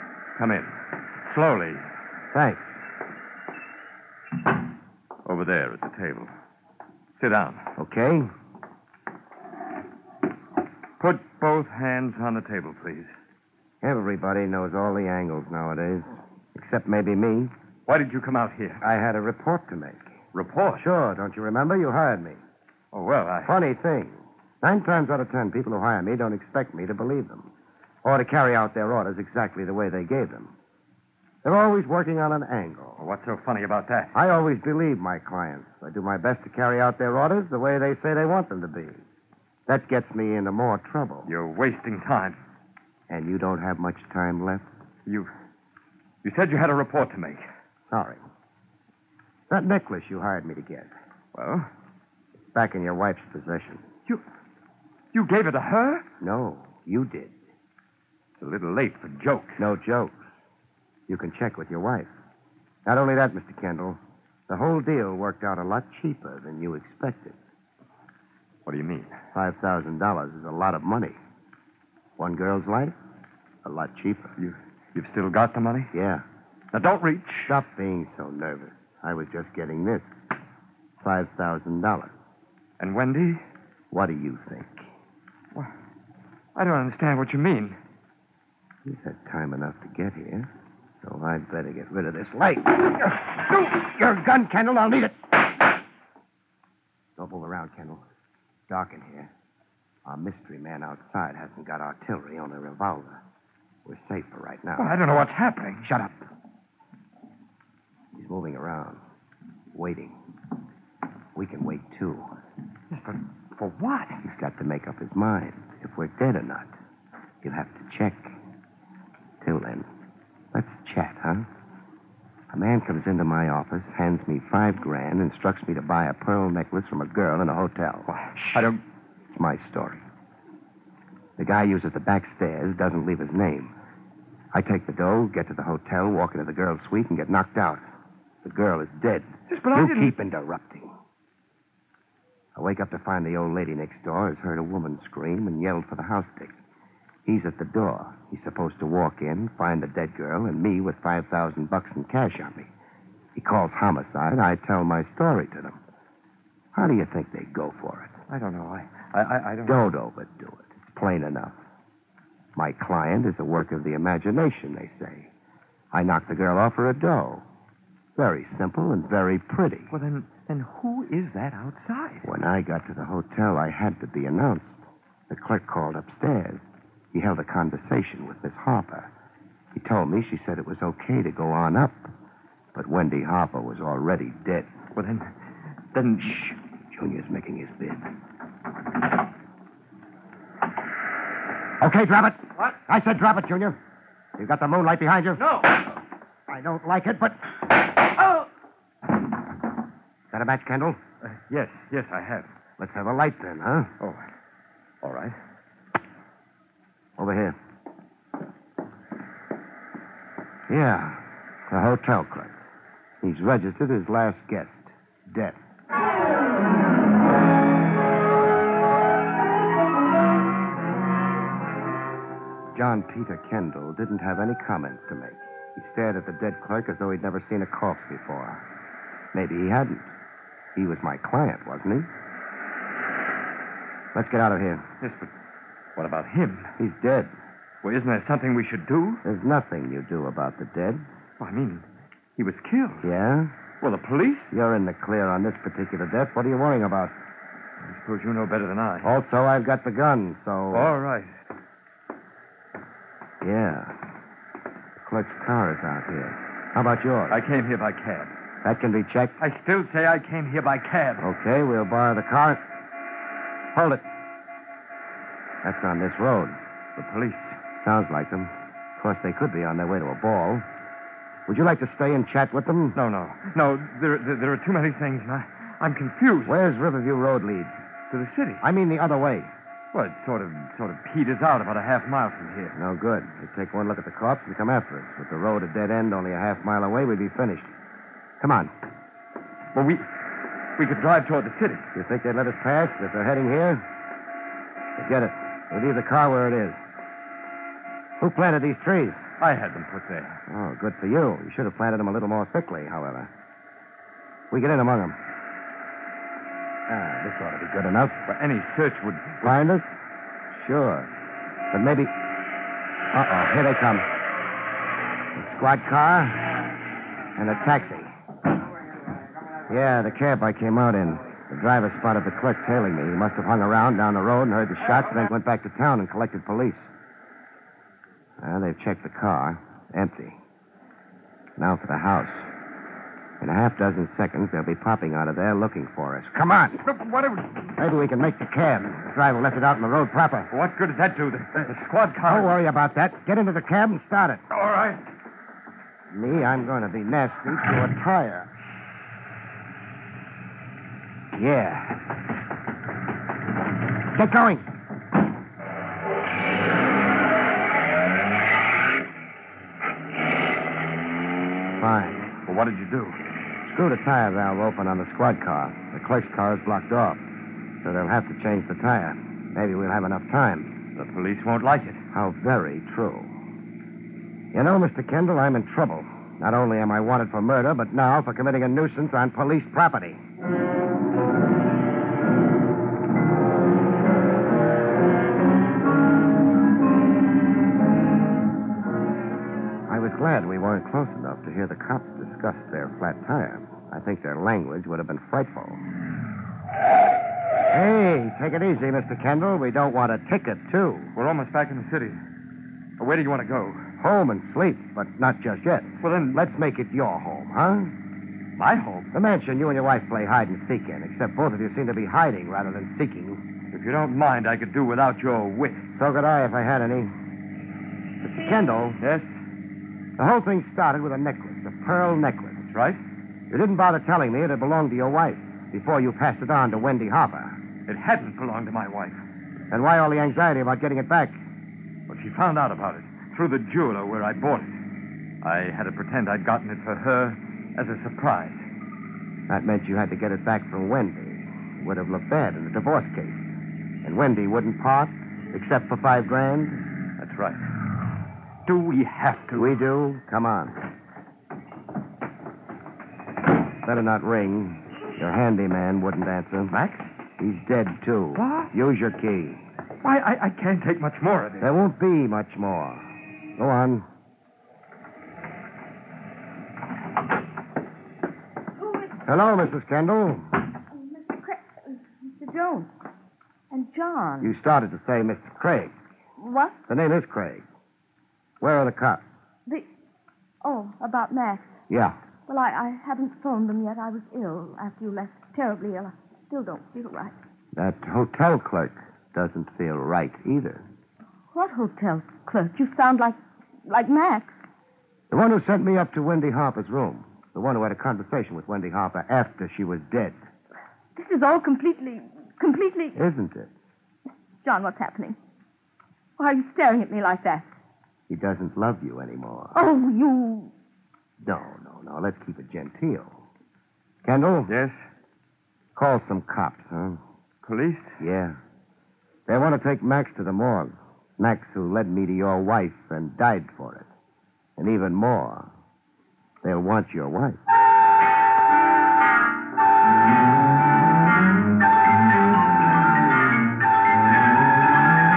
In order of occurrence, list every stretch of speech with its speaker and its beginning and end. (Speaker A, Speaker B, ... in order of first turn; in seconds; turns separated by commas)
Speaker A: 0.4-0.7, Speaker A: 1.2-1.8, Speaker B: 2.3-2.7, Speaker A: 5.2-6.3, Speaker A: 7.2-7.6, Speaker B: 7.8-8.3, Speaker A: 11.0-13.1, Speaker B: 13.8-17.5, Speaker A: 17.9-18.8, Speaker B: 18.8-20.1, Speaker A: 20.3-20.8, Speaker B: 20.8-22.4, Speaker A: 22.9-23.5, Speaker B: 23.4-27.5, Speaker B: 28.0-30.5, Speaker B: 31.4-33.0, Speaker A: 33.0-34.1, Speaker B: 34.1-39.0, Speaker B: 39.7-41.3, Speaker A: 41.3-42.4, Speaker B: 43.1-44.7, Speaker A: 46.2-47.4, Speaker B: 47.9-48.2, Speaker B: 49.5-50.9, Speaker A: 51.3-51.7, Speaker B: 52.5-53.8, Speaker A: 55.1-56.0, Speaker B: 56.2-57.3, Speaker A: 58.4-59.6, Speaker B: 59.6-60.2, Speaker B: 61.1-62.1, Speaker B: 62.8-67.4, Speaker A: 68.7-69.1, Speaker B: 69.3-71.2, Speaker B: 72.2-73.0, Speaker B: 73.6-74.3, Speaker A: 74.4-75.9, Speaker B: 75.9-76.2, Speaker A: 76.7-77.6, Speaker B: 77.5-80.1, Speaker B: 81.0-82.1, Speaker A: 82.8-83.4, Speaker B: 83.9-84.8, Speaker A: 86.5-87.8, Speaker B: 88.8-90.5, Speaker B: 91.0-95.5, Speaker B: 97.2-98.0, Speaker B: 98.7-99.3, Speaker B: 100.0-103.2, Speaker B: 103.8-104.9, Speaker A: 104.8-105.9, Speaker B: 105.9-106.1, Speaker B: 108.1-109.0, Speaker B: 109.7-110.1, Speaker B: 111.3-112.3, Speaker A: 112.9-114.2, Speaker B: 114.2-116.7, Speaker B: 117.4-118.3, Speaker B: 119.4-119.9, Speaker B: 120.5-121.5, Speaker B: 122.5-128.6, Speaker A: 128.1-128.8, Speaker B: 129.3-130.0, Speaker B: 131.4-133.7, Speaker B: 134.5-137.8, Speaker B: 138.4-140.9, Speaker A: 139.5-140.1, Speaker B: 142.6-146.6, Speaker B: 147.2-152.7, Speaker B: 153.3-155.8, Speaker B: 156.7-158.1, Speaker A: 158.3-159.8, Speaker B: 159.7-161.5, Speaker B: 162.6-165.3, Speaker B: 165.9-167.4, Speaker B: 168.2-169.9, Speaker A: 169.9-172.2, Speaker B: 172.2-174.8, Speaker B: 175.3-176.6, Speaker B: 177.1-179.1, Speaker B: 179.7-182.1, Speaker B: 182.7-184.7, Speaker A: 184.9-185.3, Speaker A: 185.9-186.6, Speaker B: 186.9-188.0, Speaker B: 191.8-193.8, Speaker B: 194.4-195.8, Speaker B: 196.5-197.5, Speaker B: 200.3-201.0, Speaker A: 201.2-202.5, Speaker B: 202.8-203.9, Speaker A: 205.0-205.3, Speaker B: 207.2-207.6, Speaker B: 210.7-212.6, Speaker B: 213.2-215.6, Speaker B: 222.7-228.6, Speaker B: 229.3-230.1, Speaker B: 230.7-232.1, Speaker B: 234.1-234.8, Speaker A: 235.0-235.3, Speaker A: 235.9-236.7, Speaker B: 236.8-237.3, Speaker A: 237.8-239.2, Speaker B: 239.2-241.0, Speaker A: 241.4-241.8, Speaker A: 242.4-243.1, Speaker B: 243.0-243.5, Speaker A: 243.8-244.5, Speaker B: 244.5-247.1, Speaker A: 247.8-249.1, Speaker B: 249.0-250.9, Speaker A: 250.7-251.3, Speaker B: 253.4-254.0, Speaker B: 255.0-257.4, Speaker A: 257.3-258.3, Speaker B: 258.6-259.3, Speaker A: 259.4-261.2, Speaker B: 261.2-262.6, Speaker B: 263.7-264.0, Speaker B: 265.6-266.6, Speaker A: 267.0-267.6, Speaker B: 267.8-270.6, Speaker B: 271.5-273.0, Speaker A: 272.9-276.5, Speaker B: 276.4-277.7, Speaker A: 278.1-278.6, Speaker B: 278.6-279.5, Speaker A: 279.9-282.8, Speaker B: 282.7-287.7, Speaker B: 288.4-288.7, Speaker A: 289.7-290.1, Speaker A: 290.8-291.9, Speaker B: 291.9-293.8, Speaker B: 295.0-296.8, Speaker B: 298.2-299.2, Speaker A: 299.4-300.4, Speaker B: 300.5-303.3, Speaker B: 304.5-305.2, Speaker B: 306.9-308.2, Speaker A: 308.3-309.5, Speaker B: 309.4-309.9, Speaker B: 310.5-311.1, Speaker B: 311.7-312.1, Speaker B: 313.1-314.1, Speaker B: 315.3-316.6, Speaker B: 317.4-318.1, Speaker B: 319.7-326.9, Speaker B: 328.4-330.4, Speaker B: 331.6-332.5, Speaker B: 333.4-336.9, Speaker A: 336.9-337.6, Speaker B: 337.8-340.5, Speaker A: 340.5-342.6, Speaker B: 342.2-344.4, Speaker A: 344.5-345.0, Speaker B: 346.1-348.5, Speaker B: 351.3-352.0, Speaker B: 354.1-354.6, Speaker B: 361.8-362.3, Speaker A: 362.4-363.2, Speaker B: 363.6-367.2, Speaker B: 367.8-370.7, Speaker A: 370.9-372.0, Speaker B: 372.1-373.3, Speaker B: 374.5-380.2, Speaker B: 389.9-395.8, Speaker B: 397.7-401.1, Speaker A: 401.1-402.2, Speaker A: 403.0-403.8, Speaker B: 404.0-407.9, Speaker A: 406.0-406.4, Speaker A: 408.6-409.1, Speaker B: 409.1-413.4, Speaker A: 413.7-415.8, Speaker B: 416.0-417.1, Speaker B: 418.2-419.0, Speaker A: 419.0-419.3, Speaker B: 420.2-422.6, Speaker A: 422.7-423.0, Speaker B: 423.5-427.6, Speaker A: 427.9-429.2, Speaker B: 429.7-431.4, Speaker A: 432.1-434.7, Speaker A: 435.4-438.6, Speaker B: 439.5-443.4, Speaker B: 444.0-446.8, Speaker A: 447.2-447.6, Speaker A: 448.6-449.8, Speaker B: 449.5-450.8, Speaker B: 453.8-456.8, Speaker A: 456.7-457.0, Speaker B: 457.4-459.6, Speaker A: 458.3-458.7, Speaker A: 460.0-461.7, Speaker B: 461.6-463.1, Speaker B: 463.6-464.1, Speaker B: 469.2-470.5, Speaker C: 470.9-472.9, Speaker C: 473.7-474.5, Speaker B: 474.4-475.9, Speaker C: 476.4-476.8, Speaker B: 476.9-477.6, Speaker B: 478.6-479.2, Speaker C: 480.6-481.7, Speaker B: 481.9-482.2, Speaker C: 482.5-487.3, Speaker B: 487.7-490.8, Speaker C: 491.5-494.5, Speaker B: 495.3-500.4, Speaker C: 501.1-503.2, Speaker B: 503.1-503.7, Speaker C: 504.6-505.4, Speaker C: 506.4-507.7, Speaker B: 508.3-509.7, Speaker C: 509.7-510.7, Speaker B: 511.4-513.4, Speaker B: 514.2-514.7, Speaker A: 514.7-514.9, Speaker B: 516.0-517.2, Speaker A: 517.6-518.2, Speaker B: 518.2-518.6, Speaker B: 519.5-524.1, Speaker B: 524.8-525.7, Speaker B: 526.6-527.6